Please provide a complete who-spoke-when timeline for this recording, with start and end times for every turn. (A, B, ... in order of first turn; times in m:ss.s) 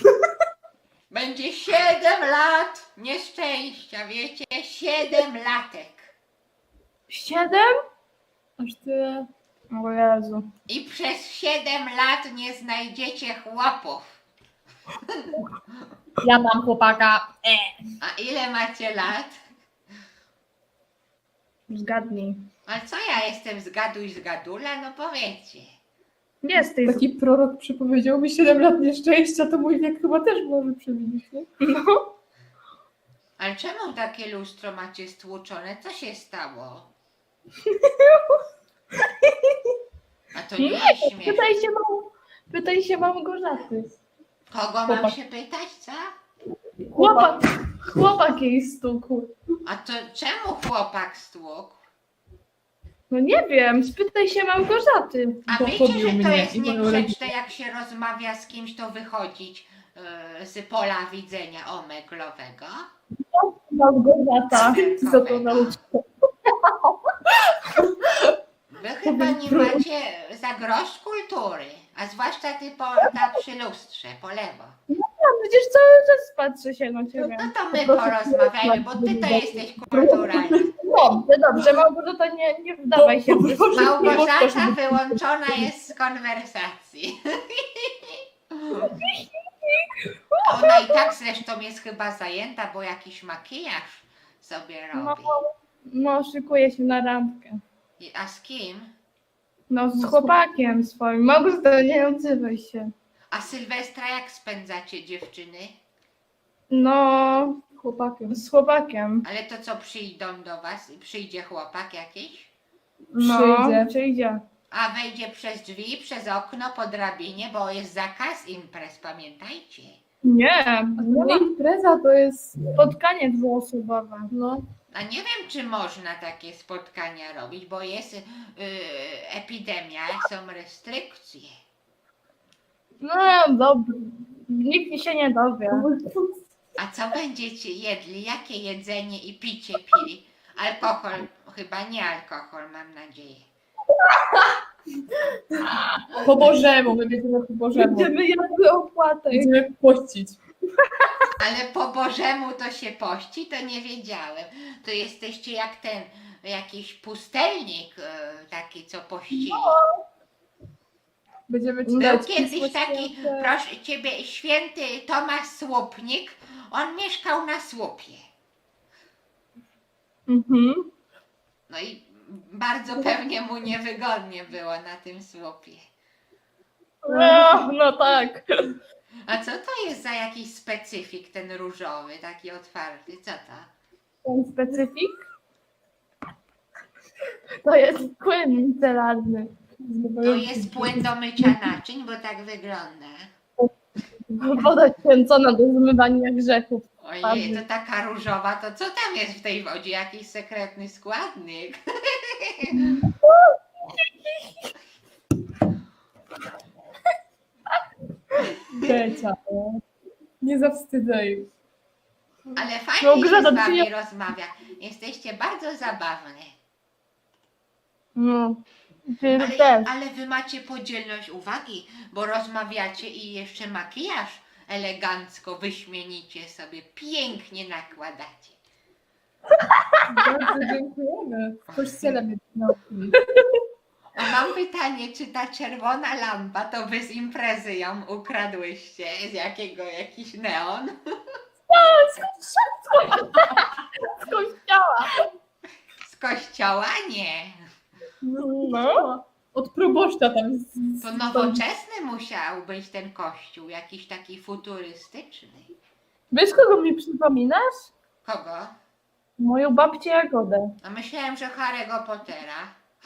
0:01.1-0:06.1 A
0:07.1-0:07.7 B
0:08.6-0:09.3 C
0:09.7-0:10.4 B
0:10.7-0:14.2 A
0:16.2-0:17.8 C
0:18.0-0:19.4 A
0:21.7-0:22.4 B
0:22.7-0:25.7 A
0:26.4-0:27.0 B
0:26.6-0:31.5 C
0:31.6-0:32.0 B
0:33.4-0:36.9 A
0:37.8-0:38.2 B
0:40.3-0:41.4 A
0:40.6-0:44.0 B
0:44.5-0:46.1 A
0:46.9-0:47.4 C
0:47.0-0:49.3 B
0:49.6-0:51.8 A
0:53.1-0:55.5 B
0:55.5-1:02.9 A
0:55.5-0:57.3 C
1:03.3-1:05.8 B
1:04.5-1:05.8 A
1:08.7-1:14.8 A
1:14.9-1:24.3 B
1:17.2-1:20.7 A
1:20.5-1:21.1 C
1:23.0-1:25.2 C
1:23.7-1:28.9 A
1:28.8-1:31.1 B
1:30.4-1:35.3 A
1:34.9-1:37.6 B
1:38.0-1:38.9 A
1:39.7-1:42.9 B
1:40.0-1:40.3 C
1:43.3-1:45.8 A
1:46.7-1:47.6 B
1:47.8-1:48.4 C
1:48.3-1:49.2 B
1:49.2-1:52.5 A
1:53.1-1:54.4 B
1:53.2-1:53.9 C
1:54.7-2:00.0 A
2:00.2-2:01.4 B
2:01.0-2:02.7 C
2:02.8-2:04.3 B
2:04.3-2:04.6 C
2:04.9-2:11.5 A
2:13.0-2:15.9 B
2:15.7-2:16.4 C
2:16.8-2:23.5 A
2:26.2-2:28.1 C
2:27.8-2:29.5 B
2:29.3-2:30.4 C
2:31.4-2:39.8 A
2:39.3-2:39.8 B
2:41.5-2:43.5 C
2:41.9-2:42.3 B
2:42.0-2:48.2 A
2:50.3-2:50.9 B
2:51.7-2:55.9 A
2:57.0-2:58.8 B
2:57.1-2:57.5 C
2:59.3-3:03.7 A
3:04.2-3:05.2 B
3:07.6-3:09.5 B
3:09.8-3:11.6 C
3:10.2-3:13.3 A
3:14.3-3:17.6 B
3:17.0-3:22.8 A
3:22.9-3:24.5 B
3:28.7-3:29.8 C
3:30.4-3:31.5 C
3:32.6-3:36.6 A
3:33.0-3:33.9 B
3:38.2-3:39.9 B
3:39.3-3:48.6 A
3:50.1-3:53.2 C
3:51.7-3:52.2 A
3:54.2-4:01.0 A
4:01.7-4:05.2 B
4:06.0-4:07.6 A
4:08.2-4:09.0 B
4:08.4-4:11.6 C
4:11.0-4:15.7 A
4:16.3-4:17.9 B
4:18.2-4:18.7 A
4:19.4-4:20.7 B
4:20.8-4:22.8 A